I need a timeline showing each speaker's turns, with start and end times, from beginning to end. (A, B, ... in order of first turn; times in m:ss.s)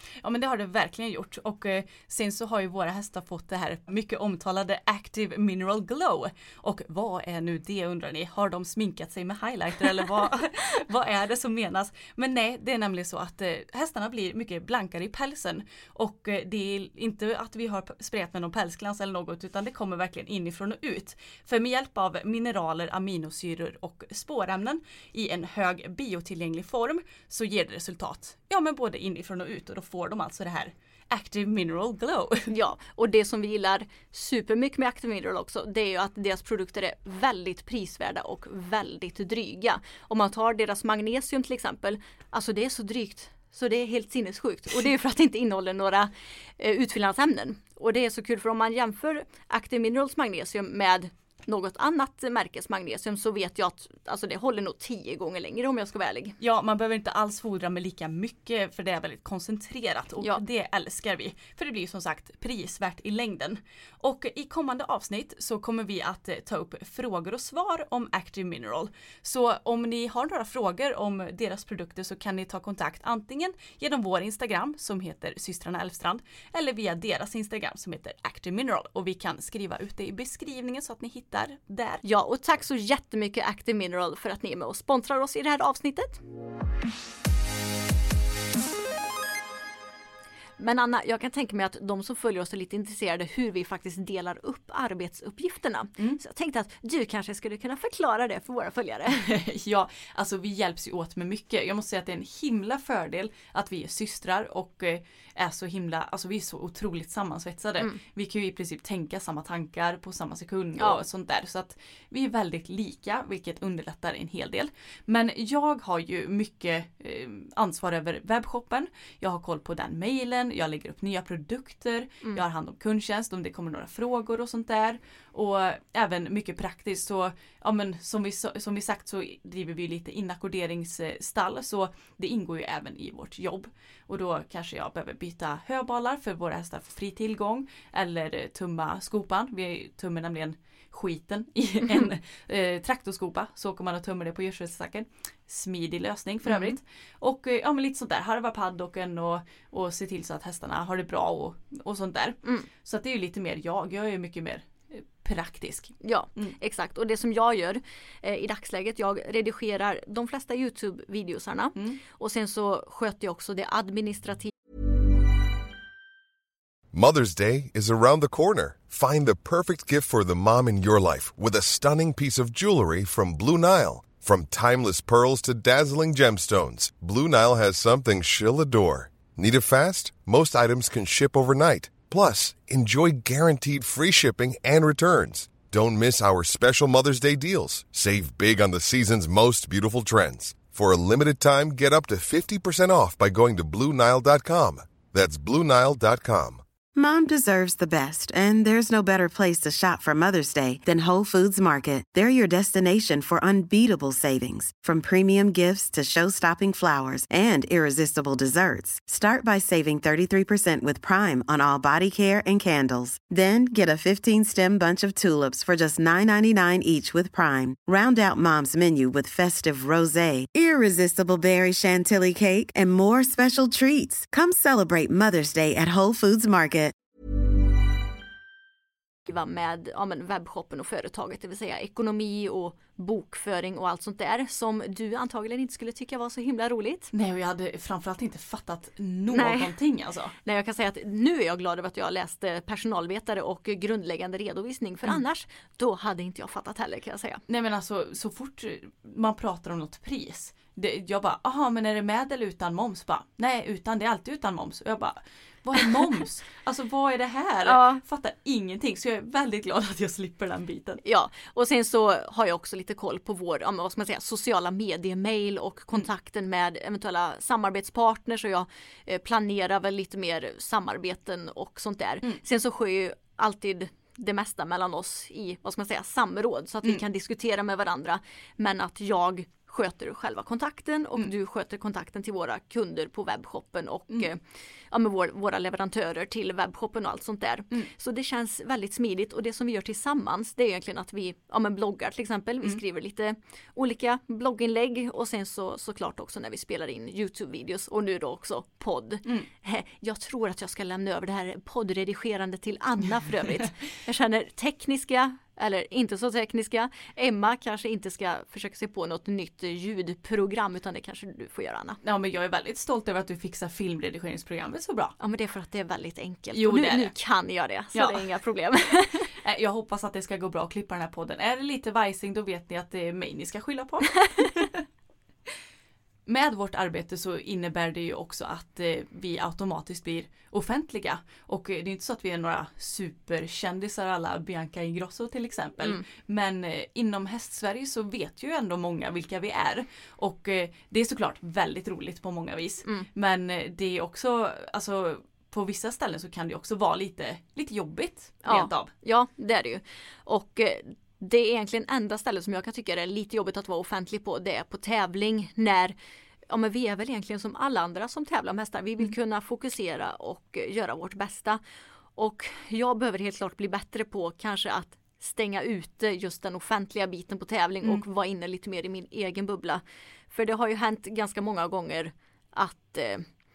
0:00.2-0:32.5 A
0:32.5-0:56.4 B
0:56.4-1:22.0 A
1:22.0-1:26.2 B
1:30.6-1:39.2 B
1:39.2-2:36.6 A
2:26.5-2:26.8 B
2:36.0-2:44.5 B
2:46.9-3:16.6 C
3:17.0-3:46.9 D
3:49.3-3:57.1 B
3:57.1-4:00.3 A
3:59.3-3:59.7 B
4:00.4-4:07.4 B
4:07.5-4:21.0 A
4:17.7-4:18.0 B
4:21.0-4:44.4 B
4:44.9-5:12.0 B
5:12.0-5:15.2 A
5:15.2-5:19.3 B
5:16.5-5:17.1 A
5:17.9-5:18.3 A
5:19.4-5:24.8 A
5:26.3-5:48.9 A
5:48.4-5:56.0 B
5:56.5-6:01.6 B
6:02.2-6:13.2 B